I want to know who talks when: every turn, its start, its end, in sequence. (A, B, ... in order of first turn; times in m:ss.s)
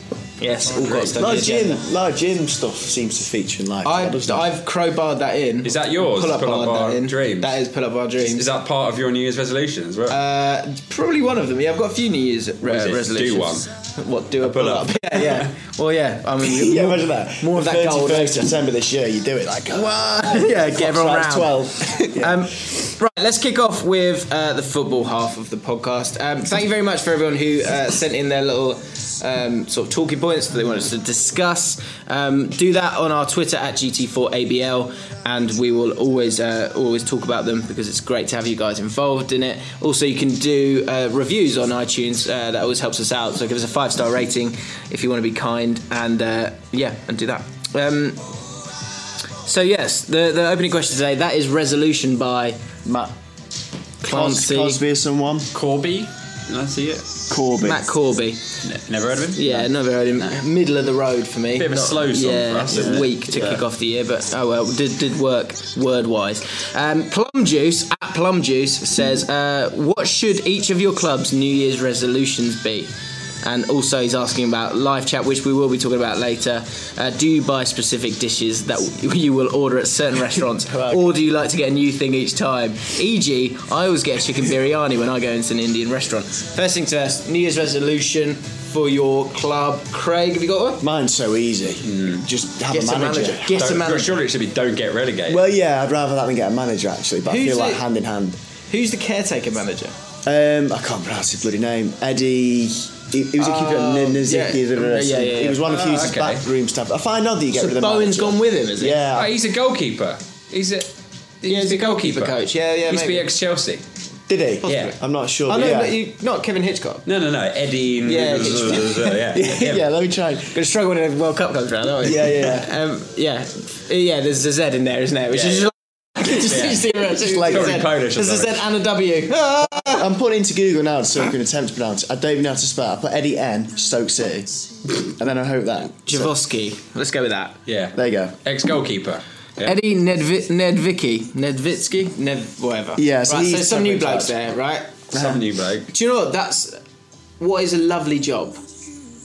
0:00.4-0:01.8 A
0:00.6-0:01.2 B
0:01.1-0:04.5 C
0:03.8-0:08.4 A
0:05.6-0:07.6 B
0:08.2-0:10.2 B
0:10.1-0:18.5 A
0:12.6-0:13.7 B
0:14.4-0:15.5 B
0:16.4-0:22.8 C
0:19.7-0:48.2 A
0:49.4-0:52.6 A
0:52.8-0:53.1 C
0:54.0-0:54.8 A
0:54.0-0:55.5 C
0:55.5-0:57.3 B
0:57.3-0:57.9 C
0:57.6-0:58.5 A
0:58.6-1:00.4 B
0:59.3-1:30.8 A
1:01.6-1:03.6 B
1:02.7-1:03.1 C
1:20.6-1:21.1 C
1:30.8-1:33.7 C
1:31.8-1:32.2 B
1:32.7-1:34.2 A
1:33.5-1:35.4 B
1:35.3-1:38.4 C
1:37.2-1:37.8 A
1:38.7-1:39.9 A
1:40.2-1:49.4 C
1:43.4-1:45.6 A
1:45.6-1:46.5 B
1:47.5-1:49.0 A
1:49.1-1:53.8 B
1:51.4-1:53.3 A
1:54.3-1:56.0 C
1:54.6-1:55.0 A
1:55.5-1:57.1 A
1:57.0-1:59.9 B
1:58.0-1:59.2 A
1:59.3-2:00.6 C
2:00.5-2:10.0 A
2:02.0-2:02.8 C
2:05.3-2:05.7 B
2:06.3-2:08.7 B
2:07.2-2:07.8 C
2:09.7-2:16.4 C
2:16.0-2:17.6 A
2:17.6-2:19.8 B
2:17.9-2:18.4 C
2:19.6-2:25.1 A
2:23.0-2:24.5 C
2:25.1-2:25.9 B
2:25.1-2:25.4 C
2:25.9-2:26.8 A
2:27.4-2:28.6 A